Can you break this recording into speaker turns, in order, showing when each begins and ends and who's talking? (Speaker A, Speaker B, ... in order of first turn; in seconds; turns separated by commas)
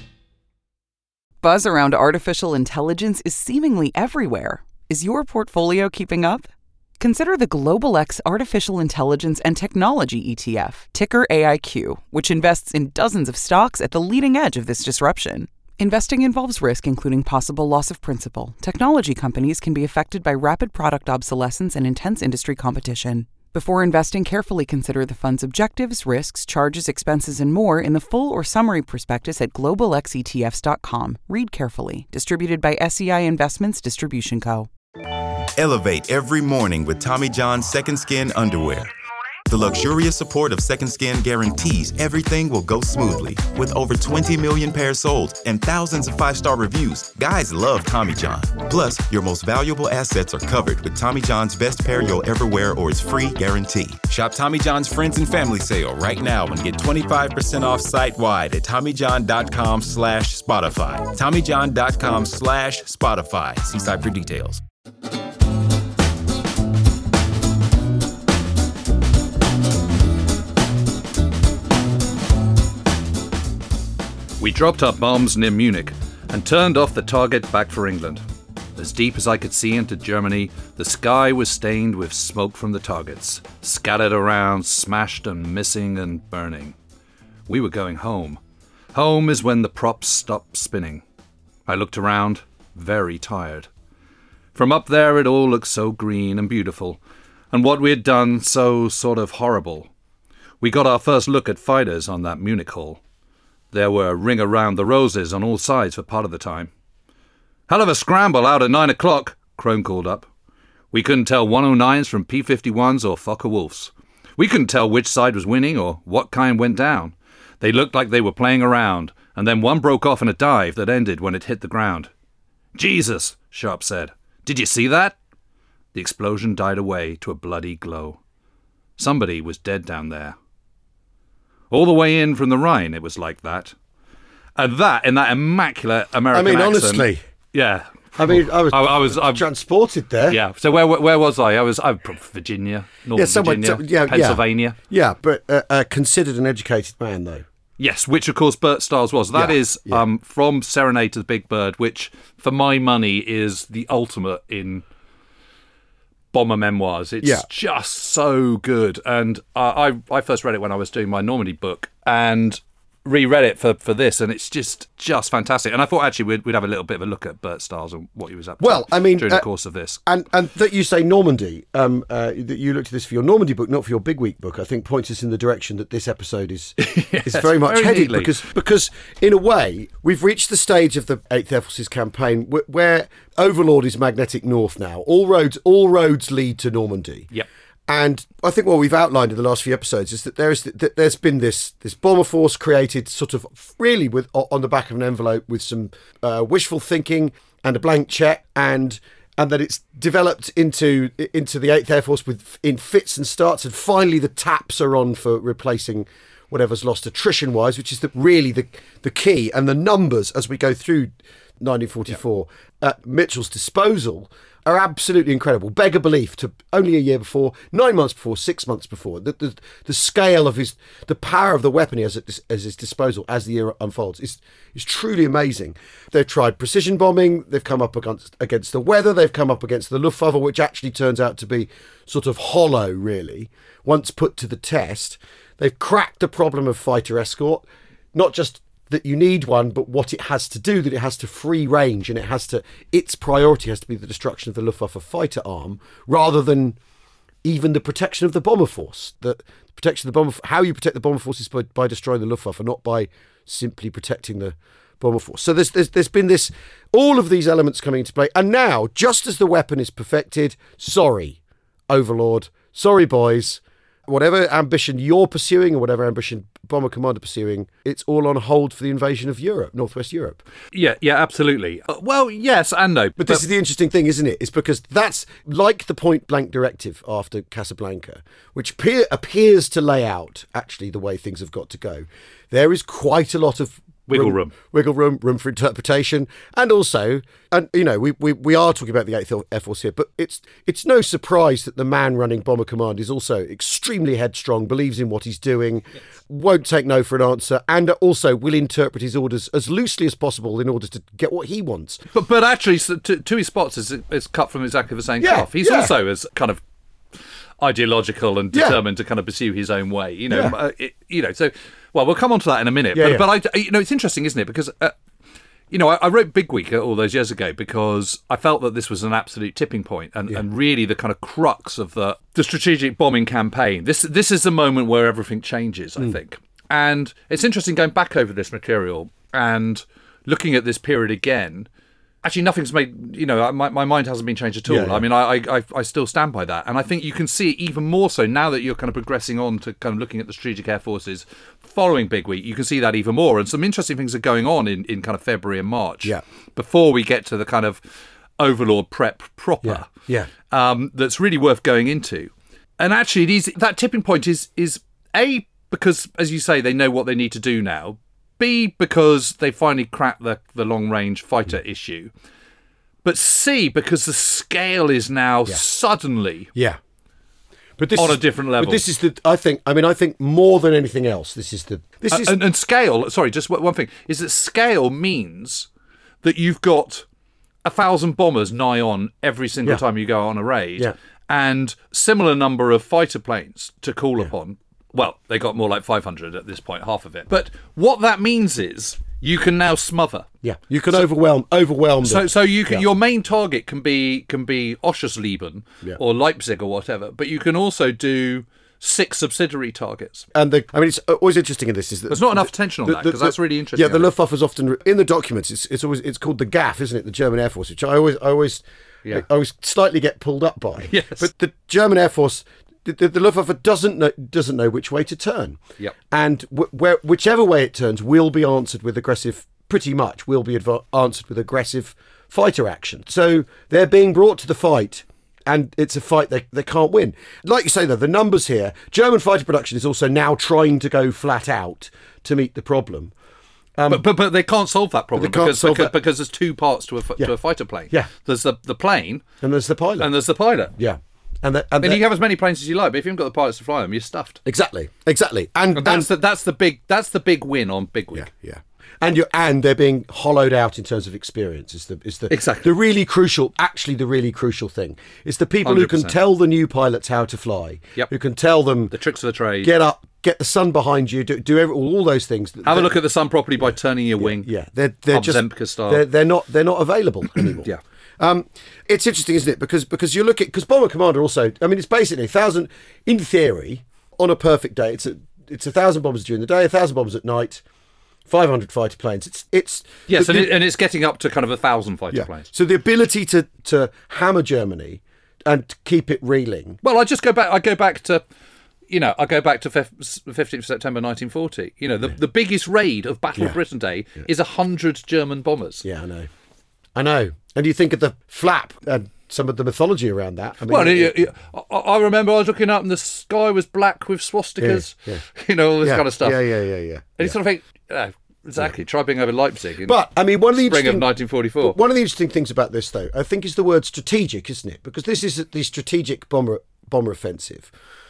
Speaker A: 1.4-6.5, Speaker A: 7.0-34.7, Speaker B: 35.4-38.9, Speaker B: 39.5-64.6, Speaker C: 74.4-78.2, Speaker C: 78.8-86.8, Speaker C: 87.5-88.4, Speaker C: 88.9-91.0, Speaker C: 91.7-93.7, Speaker C: 94.5-97.0, Speaker C: 97.5-99.9, Speaker C: 100.6-103.0, Speaker C: 103.7-106.7, Speaker C: 107.7-110.3, Speaker C: 110.9-122.1, Speaker C: 122.7-125.2, Speaker C: 125.9-128.2, Speaker C: 129.0-130.3, Speaker C: 131.7-133.7, Speaker C: 134.6-139.4, Speaker D: 136.3-137.2, Speaker D: 138.2-140.4, Speaker C: 140.3-144.8, Speaker D: 143.1-147.4, Speaker C: 147.8-154.8, Speaker D: 149.3-150.0, Speaker C: 156.3-170.0, Speaker D: 168.6-169.5, Speaker D: 170.0-187.3, Speaker C: 176.8-178.4, Speaker D: 187.9-246.8, Speaker D: 247.4-270.4, Speaker C: 270.7-273.4, Speaker D: 273.2-302.0, Speaker C: 284.1-284.5, Speaker C: 302.1-306.6, Speaker D: 305.2-305.9, Speaker C: 307.6-314.9, Speaker D: 310.3-310.5, Speaker D: 312.9-313.3, Speaker C: 315.7-331.7, Speaker C: 332.2-347.8, Speaker D: 334.6-335.1, Speaker C: 348.4-349.9, Speaker D: 349.6-350.3, Speaker C: 350.5-362.1, Speaker C: 363.0-366.5, Speaker D: 366.5-366.8, Speaker D: 367.8-372.4, Speaker C: 367.9-368.8, Speaker C: 372.1-375.7, Speaker C: 376.2-377.0, Speaker C: 377.6-390.3, Speaker D: 390.4-392.9, Speaker C: 392.0-400.3, Speaker D: 400.3-415.6, Speaker C: 402.1-404.1, Speaker C: 410.9-411.3, Speaker D: 416.1-433.1, Speaker D: 433.8-434.1, Speaker C: 433.9-439.2, Speaker D: 435.1-435.9, Speaker D: 439.4-440.1, Speaker C: 440.0-440.7, Speaker D: 440.8-442.0, Speaker C: 441.8-444.4, Speaker D: 444.4-446.1, Speaker C: 445.7-448.3, Speaker D: 448.1-458.9, Speaker C: 452.3-452.7, Speaker C: 455.6-456.1, Speaker C: 458.9-459.7, Speaker D: 459.6-462.9, Speaker C: 462.6-464.5, Speaker D: 464.2-477.6, Speaker C: 465.1-466.0, Speaker D: 478.3-480.6, Speaker C: 480.1-482.5, Speaker D: 482.1-486.8, Speaker C: 486.8-488.2, Speaker C: 488.9-495.8, Speaker D: 495.8-496.3, Speaker D: 496.9-501.1, Speaker C: 500.7-506.4, Speaker D: 504.6-505.2, Speaker D: 505.8-507.4, Speaker C: 507.2-510.0, Speaker D: 509.8-517.7, Speaker C: 510.5-511.8